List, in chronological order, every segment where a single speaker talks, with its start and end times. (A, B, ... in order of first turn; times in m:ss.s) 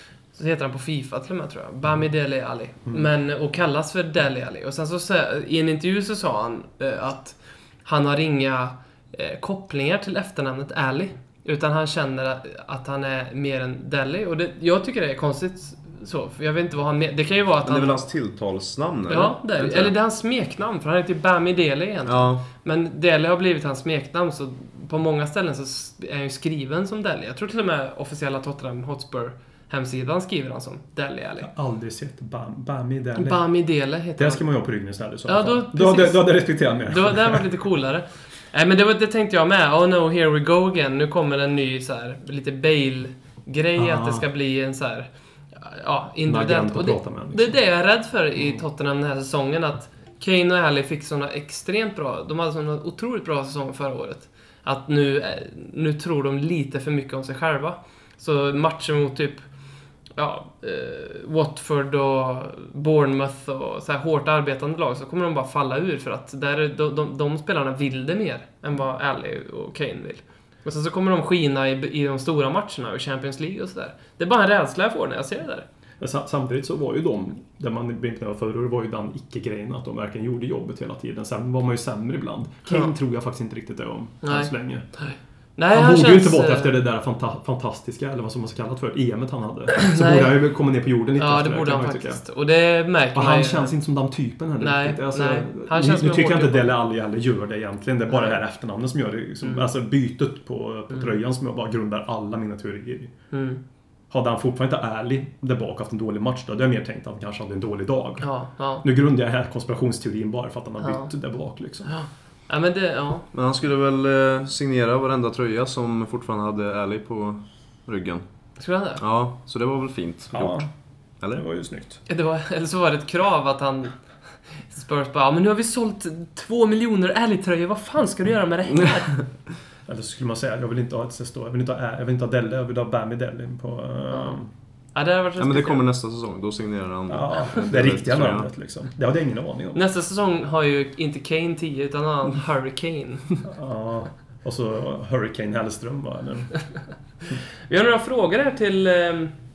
0:00.4-0:18.0 A
0:17.6-0:20.0 B
0:19.1-0:31.5 A
0:22.1-0:22.4 B
0:31.4-0:33.4 C
0:33.2-0:34.4 A
0:34.2-0:37.5 C
0:35.3-0:59.4 A
0:43.8-0:44.3 C
0:46.2-0:47.6 C
1:00.2-1:15.7 A
1:16.0-1:24.9 C
1:22.7-1:22.9 A
1:24.2-1:26.8 A
1:25.7-1:32.2 C
1:29.7-1:30.4 A
1:31.2-1:33.7 A
1:33.1-1:43.1 C
1:34.6-1:36.8 A
1:43.3-1:43.6 A
1:44.1-1:48.3 C
1:48.2-1:48.9 A
1:48.8-1:51.9 C
1:50.8-1:51.1 A
1:51.9-1:53.3 A
1:53.3-1:58.2 B
1:58.6-1:59.0 A
1:59.0-2:00.7 B
2:00.3-2:00.7 C
2:01.3-2:02.0 C
2:02.1-2:04.0 A
2:04.6-2:09.1 A
2:09.9-2:14.5 C
2:14.1-2:14.4 A
2:14.9-2:15.8 A
2:15.4-2:18.5 B
2:17.1-2:19.8 C
2:19.7-2:23.3 A
2:23.4-2:26.5 C
2:27.7-2:29.3 A